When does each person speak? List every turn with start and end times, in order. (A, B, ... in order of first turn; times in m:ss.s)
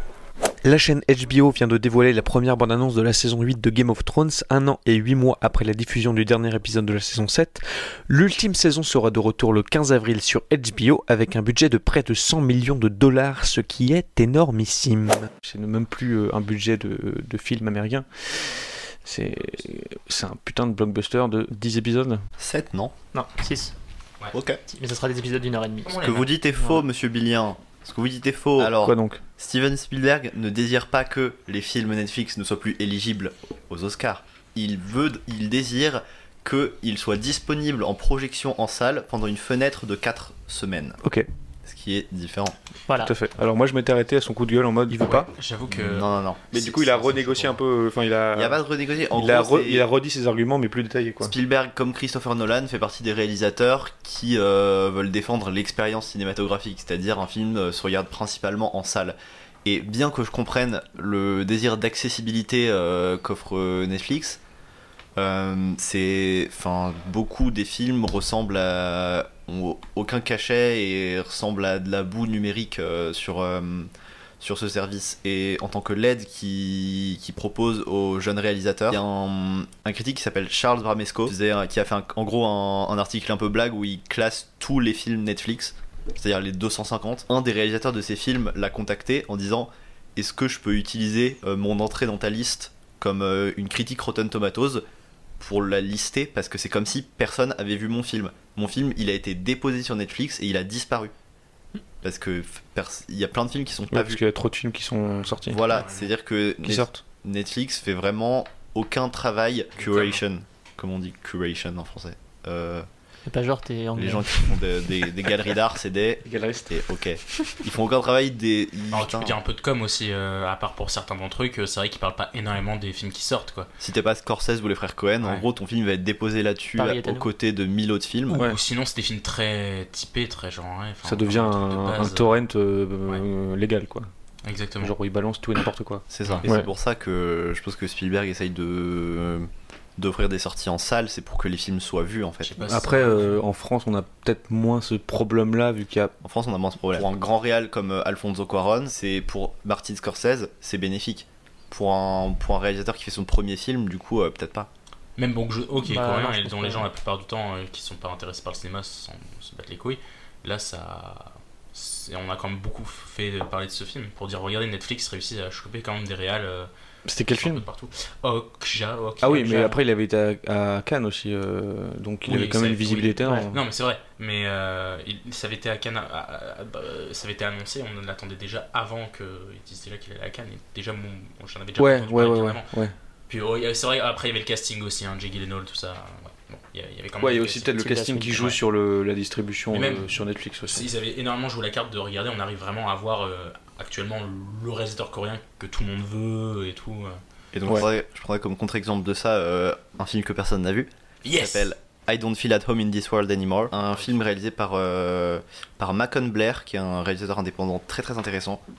0:00.6-0:18.1 A
0:19.0-0:22.2 A
0:22.4-0:22.9 B
0:23.1-0:23.8 C
0:24.3-0:24.6 B
0:24.7-0:25.9 C
0:25.8-0:26.3 D
0:26.0-0:41.0 B
0:26.6-0:26.8 C
0:28.6-0:29.2 A
0:41.6-0:42.6 B
0:42.9-0:43.1 C
0:43.0-0:45.3 A
0:44.9-0:47.6 D
0:45.7-0:46.6 B
0:46.5-0:48.6 A
0:48.3-0:49.9 B
0:49.1-0:51.3 A
0:51.2-1:04.4 B
1:05.2-1:13.9 B
1:14.4-1:34.8 B
1:35.4-1:41.1 B
1:42.0-1:44.2 B
1:43.9-1:45.6 A
1:45.5-1:52.9 B
1:45.7-1:46.1 D
1:46.6-1:47.0 A
1:49.8-1:50.2 D
1:53.3-1:54.3 C
1:54.0-1:59.4 B
1:56.2-1:56.8 A
1:58.9-2:03.7 D
2:03.8-2:08.4 B
2:05.2-2:05.5 D
2:06.8-2:07.3 C
2:08.3-2:12.4 D
2:11.0-2:14.1 A
2:14.4-2:15.0 D
2:14.8-2:16.7 A
2:16.1-2:22.6 B
2:22.4-2:23.4 D
2:22.7-2:26.1 A
2:26.2-2:34.7 B
2:35.2-2:46.7 D
2:35.8-2:36.9 C
2:47.1-2:47.7 A
2:47.3-2:49.8 D
2:49.2-2:53.6 A
2:52.3-3:02.7 D
3:01.8-3:03.0 A
3:03.3-3:07.7 D
3:07.2-3:10.9 A
3:07.8-3:08.6 C
3:09.7-3:17.2 D
3:17.5-3:28.6 B
3:21.2-3:21.7 D